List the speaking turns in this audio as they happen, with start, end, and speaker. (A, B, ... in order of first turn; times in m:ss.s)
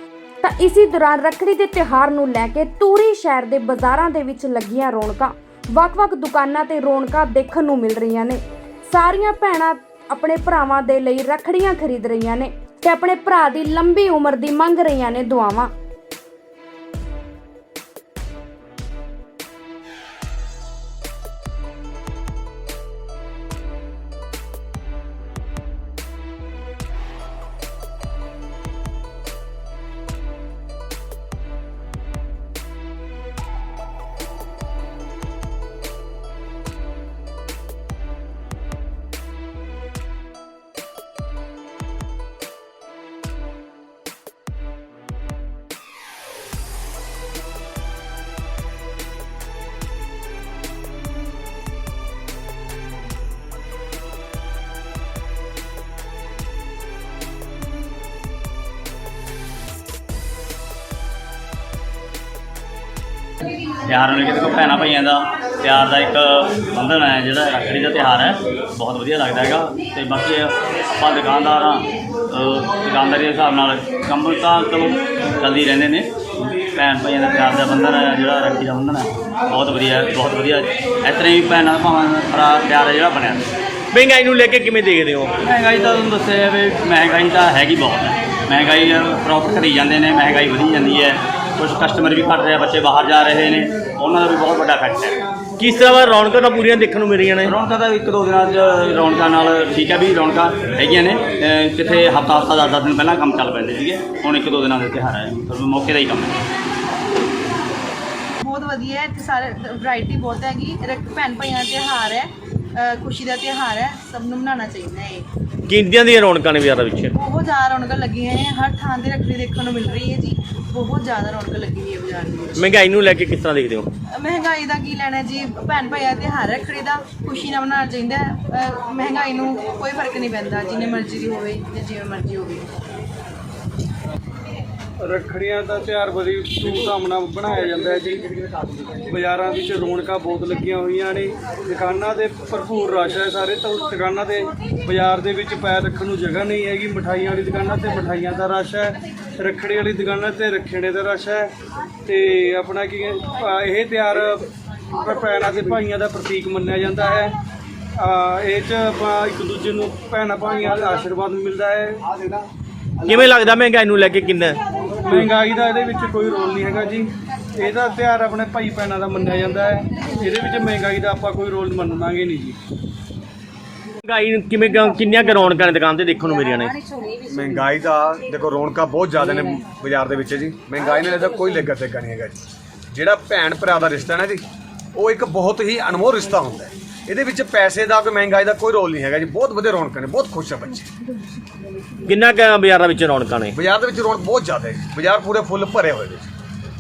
0:00.4-0:15.7 A
1:03.9-1:23.5 B
1:23.9-1:25.3 C
1:25.4-1:35.2 B
1:35.6-1:37.5 C
1:37.4-1:46.4 B
1:48.4-1:55.3 D
1:55.7-1:57.1 C
1:57.1-2:02.7 D
2:02.6-2:03.9 C
2:04.2-2:12.7 D
2:15.0-2:18.3 E
2:18.9-2:31.5 E
2:32.1-2:37.3 E
2:38.0-2:42.2 E
2:43.0-2:44.6 C
2:45.0-2:52.6 E
2:54.0-2:56.8 C
2:57.2-3:04.4 F
3:04.9-3:10.9 F
3:12.1-3:13.6 C
3:13.5-3:16.3 F